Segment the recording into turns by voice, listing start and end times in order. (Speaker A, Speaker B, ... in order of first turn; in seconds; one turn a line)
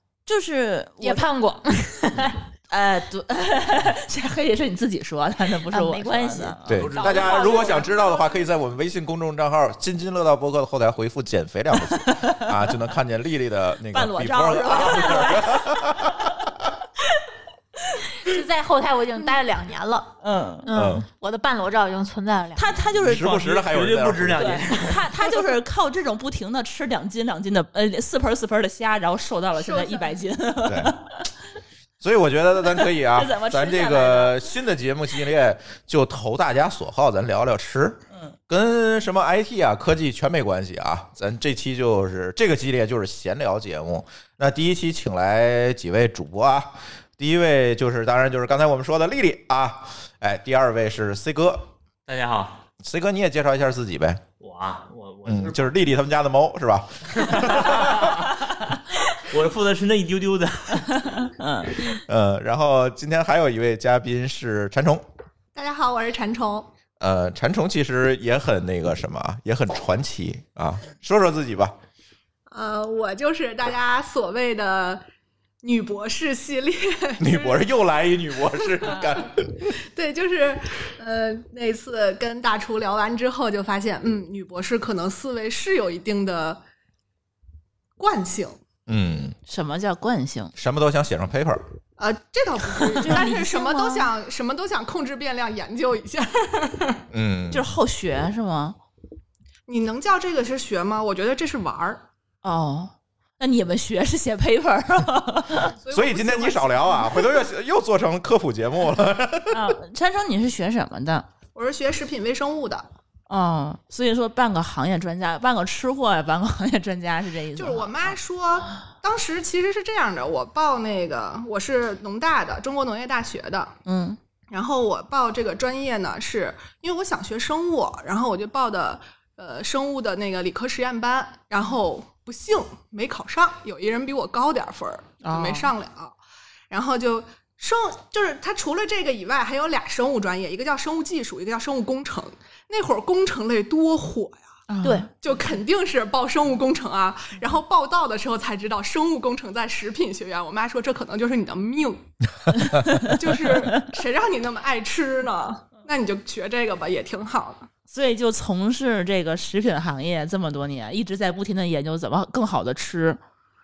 Speaker A: 0.3-1.3
Speaker B: 1.0-2.4
Speaker A: 2.7-6.6
Speaker B: 5.7-8.3
Speaker C: 6.7-16.5
Speaker D: 6.7-7.9
Speaker A: 12.0-12.4
Speaker A: 13.9-16.3
Speaker B: 18.1-22.9
Speaker A: 20.2-20.7
Speaker C: 20.7-21.1
Speaker A: 22.6-23.4
Speaker C: 23.0-24.8
Speaker D: 23.0-25.1
Speaker A: 24.4-31.3
Speaker E: 29.6-30.2
Speaker C: 30.7-30.9
Speaker C: 32.0-51.7
Speaker A: 32.8-34.4
Speaker D: 52.1-52.6
Speaker C: 52.8-54.2
Speaker D: 54.4-55.8
Speaker C: 55.3-58.1
Speaker D: 57.2-61.2
Speaker A: 61.2-62.0
Speaker C: 62.1-65.0
Speaker E: 65.5-66.7
Speaker C: 67.0-71.8
Speaker E: 72.5-75.0
Speaker E: 75.6-77.7
Speaker C: 77.2-79.7
Speaker E: 78.7-86.6
Speaker E: 88.0-88.6
Speaker C: 88.9-89.4
Speaker A: 89.5-90.5
Speaker C: 90.5-91.6
Speaker E: 92.0-97.1
Speaker A: 92.8-94.1
Speaker C: 97.1-97.7
Speaker A: 97.5-98.8
Speaker E: 99.7-102.0
Speaker A: 102.4-105.7
Speaker E: 105.7-107.3
Speaker C: 105.9-109.8
Speaker A: 109.5-111.3
Speaker E: 111.5-112.9
Speaker A: 113.3-118.2
Speaker E: 117.5-123.8
Speaker A: 123.8-124.2
Speaker E: 124.5-136.2
Speaker A: 135.2-135.7
Speaker E: 136.7-144.5
Speaker A: 144.7-145.1
Speaker B: 144.8-145.1
Speaker E: 145.2-152.1
Speaker A: 152.6-153.7
Speaker E: 152.8-157.7
Speaker A: 157.9-163.2